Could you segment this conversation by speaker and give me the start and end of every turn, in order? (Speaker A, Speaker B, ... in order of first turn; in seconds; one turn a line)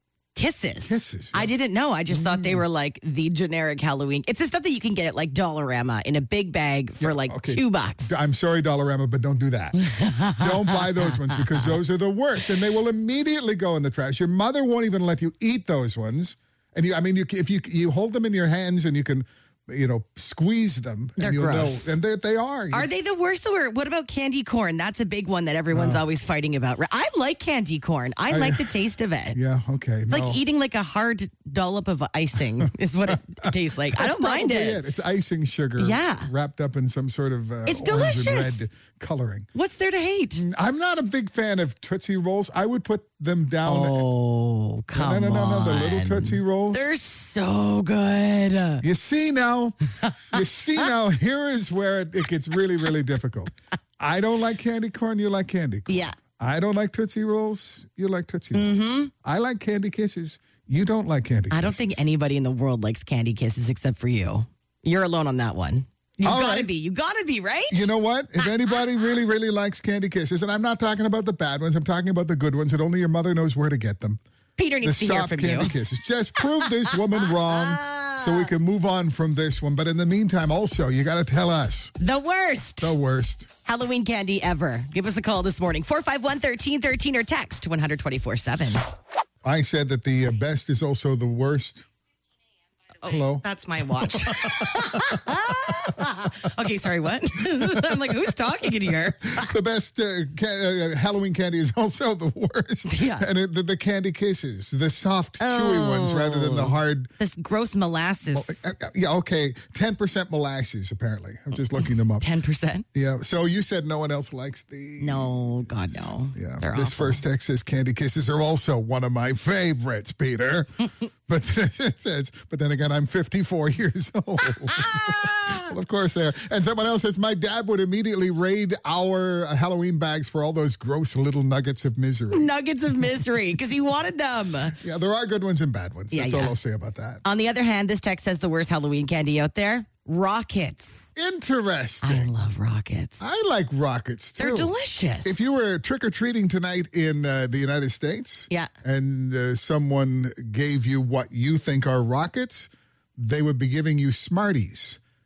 Speaker A: 0.3-8.1
Speaker B: 0.9-1.5
Speaker B: 2.1-2.6
Speaker B: 7.0-22.9
Speaker A: 9.8-11.7
Speaker A: 21.2-22.0
Speaker A: 22.7-29.4
Speaker B: 25.7-26.1
Speaker B: 28.3-28.8
Speaker B: 29.3-30.4
Speaker A: 30.1-34.8
Speaker B: 33.1-39.5
Speaker A: 35.8-36.3
Speaker A: 37.7-38.6
Speaker A: 39.5-40.4
Speaker B: 40.3-44.1
Speaker A: 43.6-48.8
Speaker B: 45.0-46.9
Speaker B: 48.8-49.8
Speaker A: 50.0-50.9
Speaker B: 50.3-62.0
Speaker A: 55.9-56.2
Speaker A: 58.5-59.1
Speaker A: 61.5-67.9
Speaker B: 66.2-66.7
Speaker B: 67.7-74.2
Speaker A: 74.6-75.8
Speaker B: 74.8-81.9
Speaker A: 77.3-78.5
Speaker A: 82.0-82.9
Speaker B: 82.8-83.5
Speaker A: 83.7-89.0
Speaker B: 89.4-91.8
Speaker A: 93.0-99.5
Speaker B: 93.0-96.0
Speaker B: 97.5-98.3
Speaker B: 98.9-107.1
Speaker A: 102.9-103.3
Speaker A: 105.4-108.6
Speaker B: 108.3-112.3
Speaker A: 112.2-112.8
Speaker B: 112.9-132.5
Speaker A: 115.0-117.2
Speaker A: 124.6-125.7
Speaker A: 132.3-134.8
Speaker B: 134.8-137.2
Speaker A: 136.1-136.6
Speaker A: 137.2-141.1
Speaker B: 141.2-142.3
Speaker A: 142.0-143.2
Speaker B: 143.2-155.0
Speaker A: 144.4-145.4